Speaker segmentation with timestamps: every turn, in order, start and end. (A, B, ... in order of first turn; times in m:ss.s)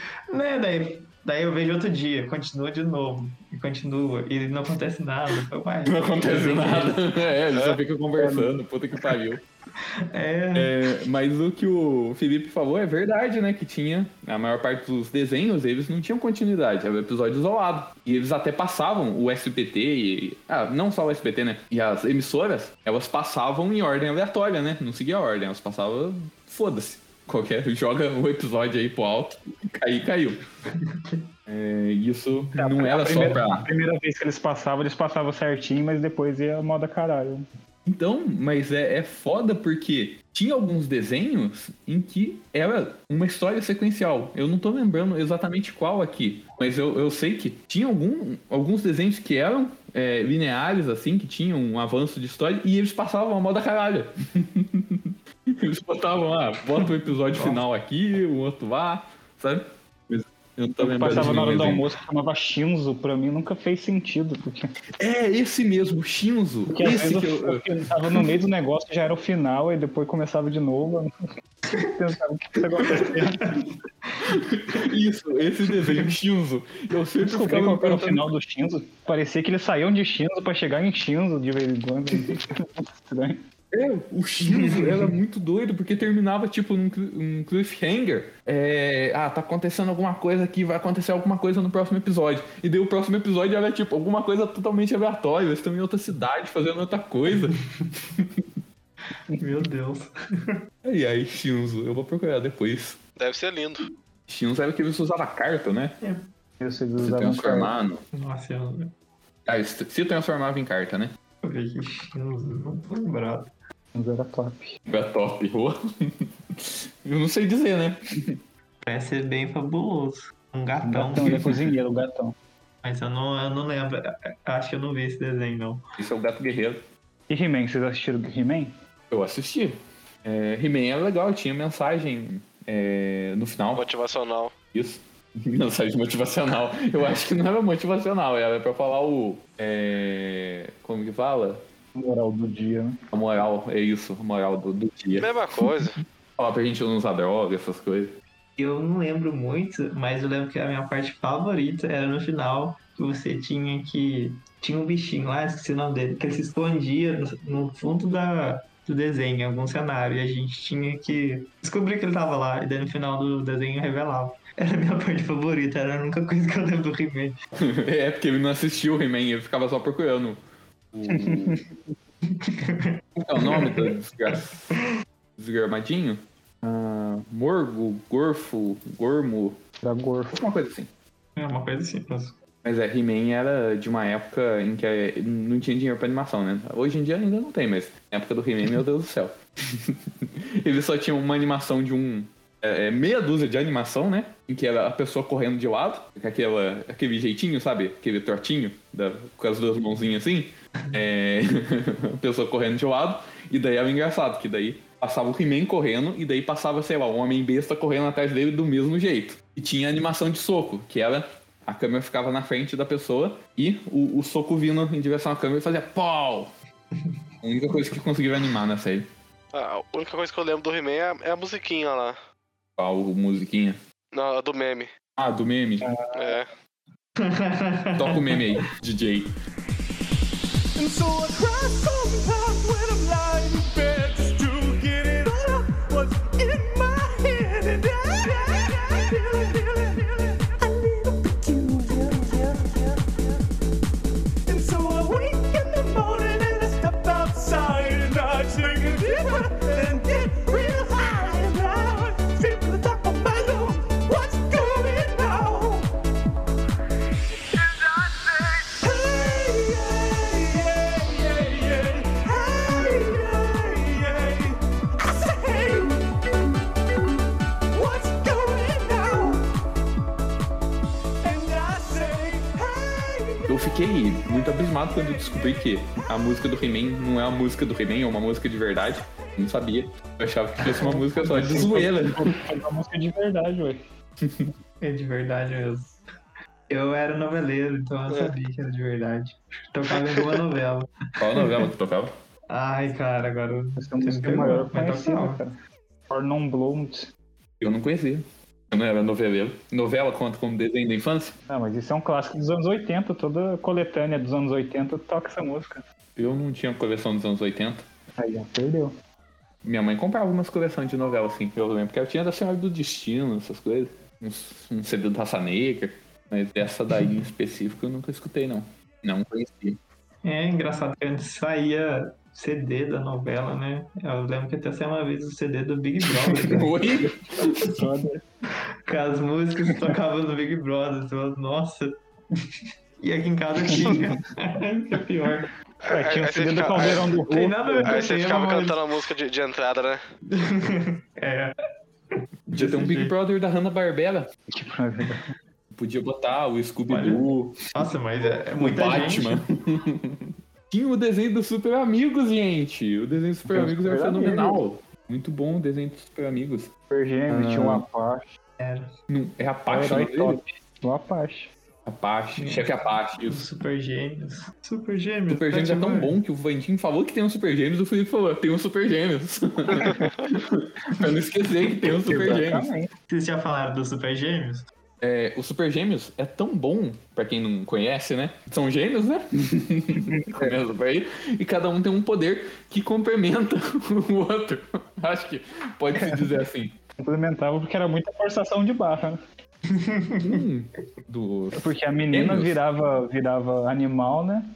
0:00.3-0:06.9 A
0:05.8-0:09.4 B
0:07.5-0:07.8 C
0:08.2-0:08.5 D
0:09.8-0:10.7 A
0:10.5-0:30.4 B
0:31.5-0:33.7 B
0:32.6-0:37.5 D
0:37.8-1:01.8 B
1:00.8-1:04.7 D
1:05.0-1:07.6 B
1:06.7-1:11.1 D
1:11.8-1:13.6 D
1:14.2-1:18.2 B
1:15.8-1:16.1 A
1:17.2-1:23.4 D
1:23.7-1:37.6 B
1:24.4-1:25.1 A
1:38.2-1:38.5 B
1:39.4-1:40.6 A
1:40.8-1:43.0 B
1:43.2-1:43.9 C
1:44.3-1:46.0 B
1:46.6-1:47.7 D
1:47.0-1:48.0 B
1:48.1-1:48.9 A
1:49.5-1:51.1 B
1:51.4-1:53.5 A
1:53.9-1:54.7 D
1:54.9-1:58.4 B
1:58.8-2:01.6 A
2:00.8-2:02.4 D
2:01.3-2:01.5 B
2:02.8-2:05.8 A
2:06.0-2:06.8 B
2:07.3-2:08.7 D
2:09.1-2:13.9 B
2:13.8-2:14.5 C
2:14.7-2:21.6 B
2:22.0-2:23.0 D
2:23.1-2:25.8 B
2:25.2-2:26.0 C
2:26.4-2:28.2 B
2:28.6-2:47.4 A
2:47.6-2:50.4 B
2:50.9-2:51.6 B
2:51.1-2:51.7 D
2:52.3-2:53.9 A
2:53.2-2:54.7 B
2:55.4-2:59.6 B
2:59.8-3:00.4 D
3:00.3-3:00.9 B
3:01.4-3:02.4 A
3:02.6-3:36.5 B
3:37.4-3:39.1 B
3:39.5-3:42.2 C
3:42.8-3:43.8 B
3:44.1-3:44.9 C
3:45.2-3:45.9 B
3:45.8-3:46.4 D
3:46.1-3:46.5 C
3:47.2-3:48.4 A
3:48.0-3:49.3 B
3:50.8-4:03.3 E
4:04.5-4:15.9 E
4:17.5-4:26.5 E
4:27.7-4:29.5 E
4:31.2-4:33.6 E
4:33.5-4:42.4 B
4:40.8-4:43.8 D
4:44.2-4:44.5 B
4:44.8-4:46.0 A
4:46.7-4:51.7 A
4:51.2-4:52.1 B
4:52.5-4:55.4 A
4:53.8-4:55.6 D
4:56.1-4:57.1 D
4:57.6-5:01.4 B
5:01.5-5:05.8 D
5:06.2-5:07.8 B
5:08.2-5:08.9 D
5:09.6-5:19.8 B
5:20.2-5:26.8 A
5:26.0-5:27.8 B
5:27.7-5:28.2 D
5:28.9-5:32.5 A
5:33.0-5:35.5 A
5:33.7-5:34.0 D
5:35.8-5:37.1 C
5:35.9-5:38.0 D
5:36.8-5:38.8 A
5:37.8-5:40.0 C
5:40.3-5:41.6 A
5:42.5-5:43.1 A
5:42.5-5:44.3 B
5:44.5-5:45.3 D
5:45.8-5:47.9 B
5:46.9-5:49.4 A
5:48.5-5:56.7 B
5:53.5-5:54.6 D
5:56.9-5:58.3 D
5:57.3-5:57.8 B
5:58.6-5:58.9 A
5:59.1-6:00.4 B
5:59.7-6:01.5 D
6:01.8-6:03.4 B
6:02.4-6:02.7 A
6:03.3-6:06.2 A
6:05.3-6:12.7 B
6:12.0-6:12.9 D
6:13.1-6:14.6 A
6:15.0-6:26.8 B
6:20.0-6:20.6 D
6:27.0-6:29.2 D
6:29.7-6:30.4 A
6:30.2-6:32.6 B
6:31.6-6:34.5 D